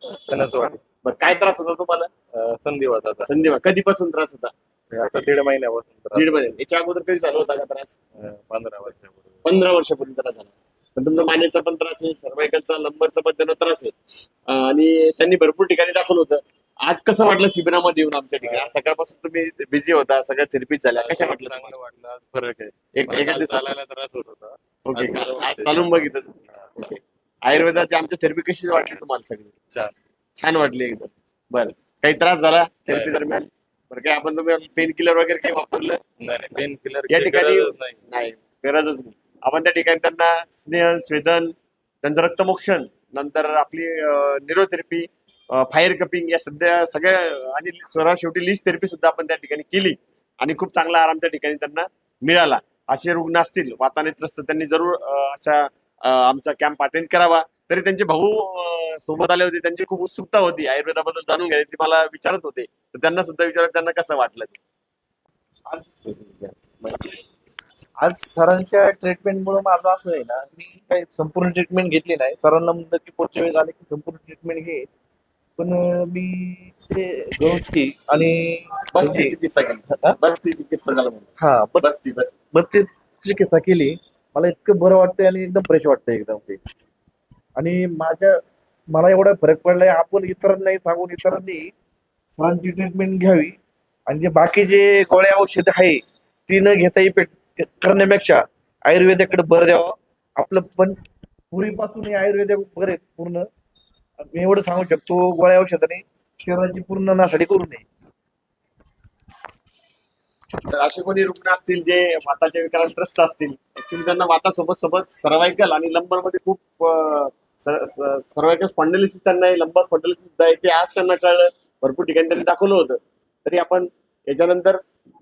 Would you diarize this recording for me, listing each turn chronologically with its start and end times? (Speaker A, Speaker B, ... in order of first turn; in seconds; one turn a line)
Speaker A: 0.3-0.8
Speaker B: 1.0-2.1
Speaker A: 2.3-3.3
Speaker B: 3.2-4.5
Speaker A: 4.9-6.5
Speaker B: 6.1-7.9
Speaker A: 8.2-9.4
Speaker B: 9.4-13.9
Speaker B: 14.5-21.7
Speaker A: 18.4-18.7
Speaker A: 20.9-25.9
Speaker B: 22.9-23.7
Speaker B: 24.9-29.5
Speaker B: 30.4-36.0
Speaker A: 32.9-33.2
Speaker A: 36.2-38.0
Speaker B: 37.1-64.6
Speaker C: 65.7-67.2
Speaker C: 68.0-74.9
Speaker C: 75.6-79.4
Speaker B: 78.9-82.3
Speaker C: 81.4-81.9
Speaker C: 82.5-86.6
Speaker C: 87.6-88.4
Speaker C: 88.9-91.7
Speaker C: 92.3-93.6
Speaker C: 94.1-101.0
Speaker C: 101.5-103.5
Speaker C: 104.3-107.8
Speaker B: 110.7-124.8